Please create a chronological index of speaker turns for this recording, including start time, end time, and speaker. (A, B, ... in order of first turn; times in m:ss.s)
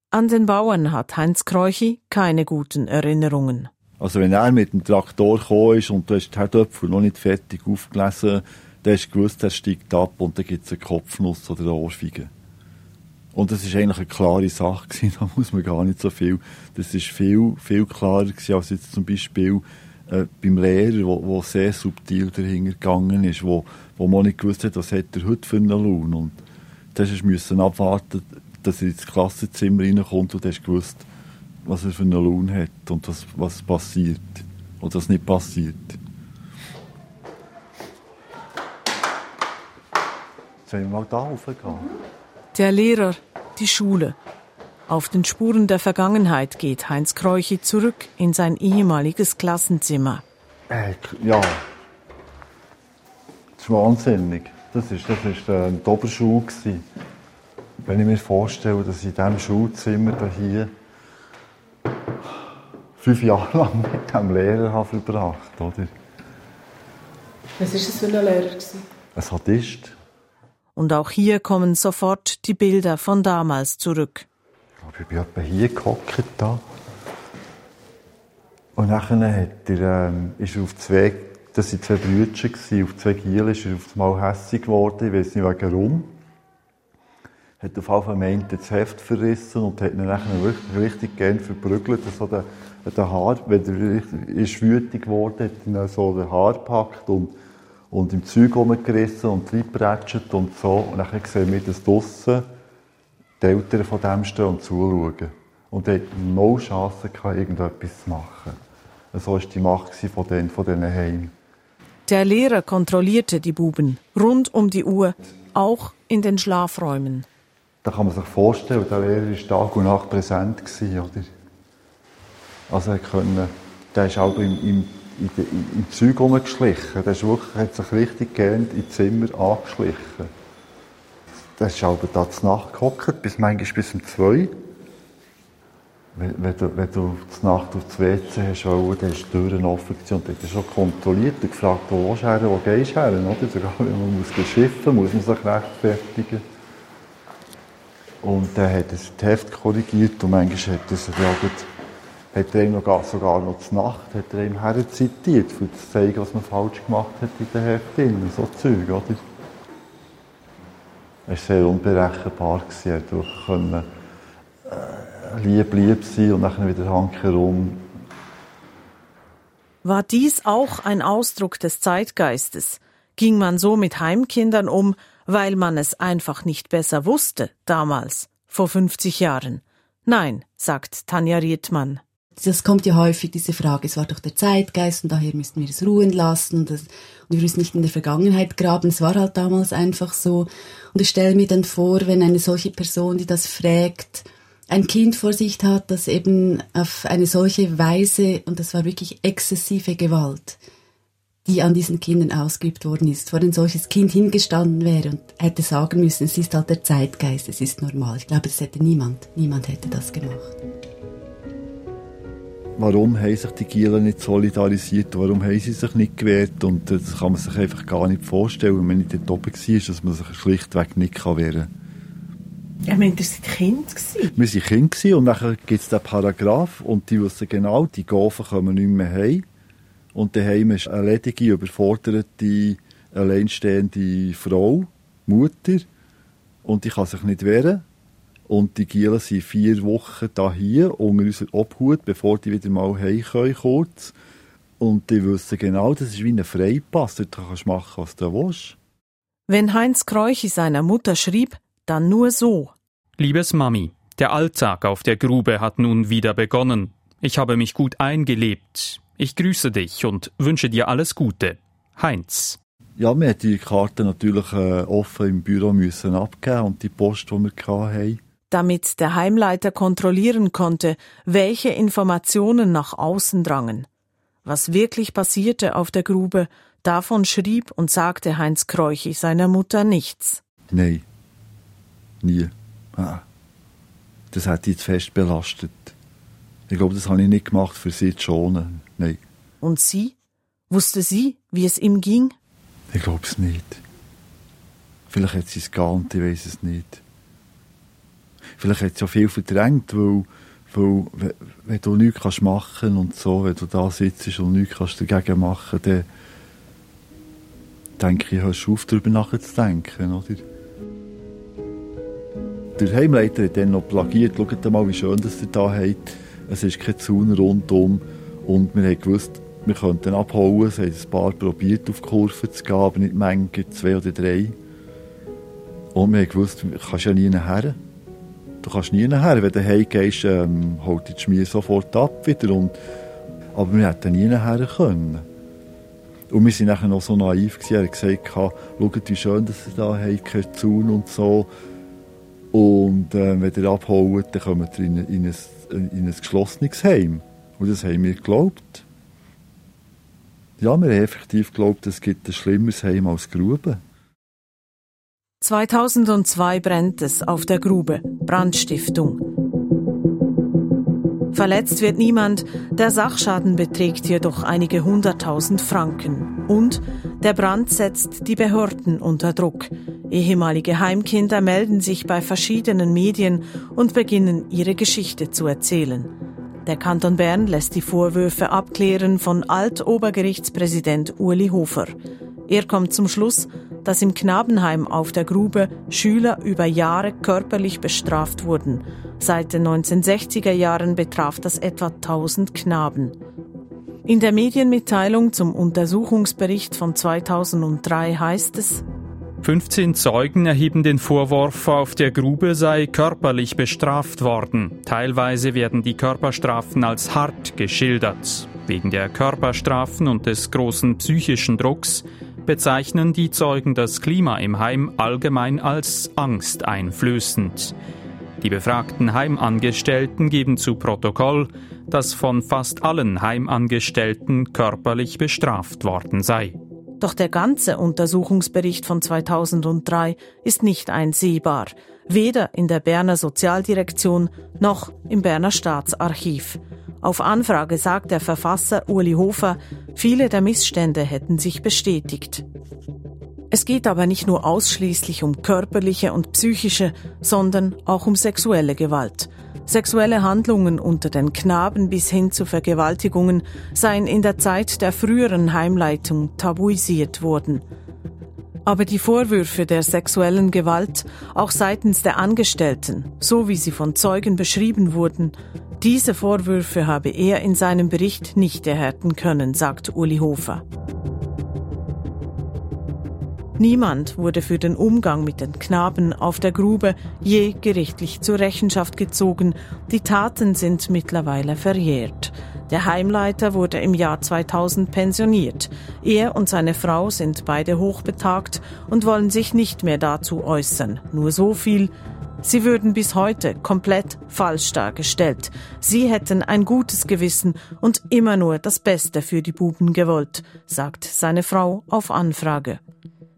0:00.1-0:03.7 A
0:04.0-0:12.3 B
0:13.3-0:26.4 B
0:26.9-0:31.0 B
0:31.6-0:36.0 B
0:40.7-0:41.9 B
0:42.5-0:44.2 A
0:44.9-0:50.2 A
0:50.7-0:51.6 B
0:53.6-0:56.8 B
0:57.8-1:00.7 B
1:03.0-1:05.9 B
1:07.6-1:08.8 A
1:09.1-1:09.9 B
1:10.8-1:14.2 A
1:14.8-1:16.6 B
1:18.7-1:26.1 B
1:27.6-1:37.3 B
1:37.9-1:42.5 B
1:43.4-1:48.6 B
1:49.1-1:51.3 B
1:52.1-1:57.2 A
1:57.8-2:01.3 B
2:02.7-2:10.3 B
2:11.6-2:14.5 B
2:16.1-2:26.4 B
2:28.2-2:31.7 B
2:32.3-2:39.2 B
2:41.3-2:43.8 B
2:44.6-2:47.8 B
2:49.8-3:02.0 A
3:02.4-3:20.6 C
3:21.4-3:30.6 C
3:32.8-3:41.7 B
3:42.9-3:44.3 A
3:44.3-3:49.4 B
3:50.1-3:55.9 B
3:56.6-3:57.8 B
3:58.5-4:04.1 B
4:04.8-4:08.8 B
4:09.5-4:12.7 A
4:13.2-4:22.6 D
4:23.0-4:28.2 B
4:28.5-4:33.9 A
4:34.4-4:40.4 A
4:40.7-4:41.0 B
4:42.2-4:43.2 B
4:44.3-4:45.9 B
4:46.7-4:49.2 B
4:49.6-4:50.1 A
4:50.7-4:52.3 A
4:52.9-4:53.8 B
4:55.1-4:57.0 B
4:58.6-5:06.0 B
5:08.0-5:10.4 B
5:12.8-5:24.6 B
5:25.9-5:27.8 B
5:28.6-5:32.7 B
5:33.5-5:35.2 B
5:36.3-5:41.5 B
5:42.5-5:48.8 B
5:50.6-5:53.8 B
5:55.4-5:59.2 A
6:01.3-6:16.1 A
6:16.6-6:22.0 A
6:22.5-6:33.2 A
6:34.0-6:38.8 A
6:39.4-6:57.7 D
6:58.4-7:06.6 D
7:07.0-7:22.4 A
7:23.5-7:37.6 A
7:38.6-7:50.6 A
7:53.6-8:22.8 A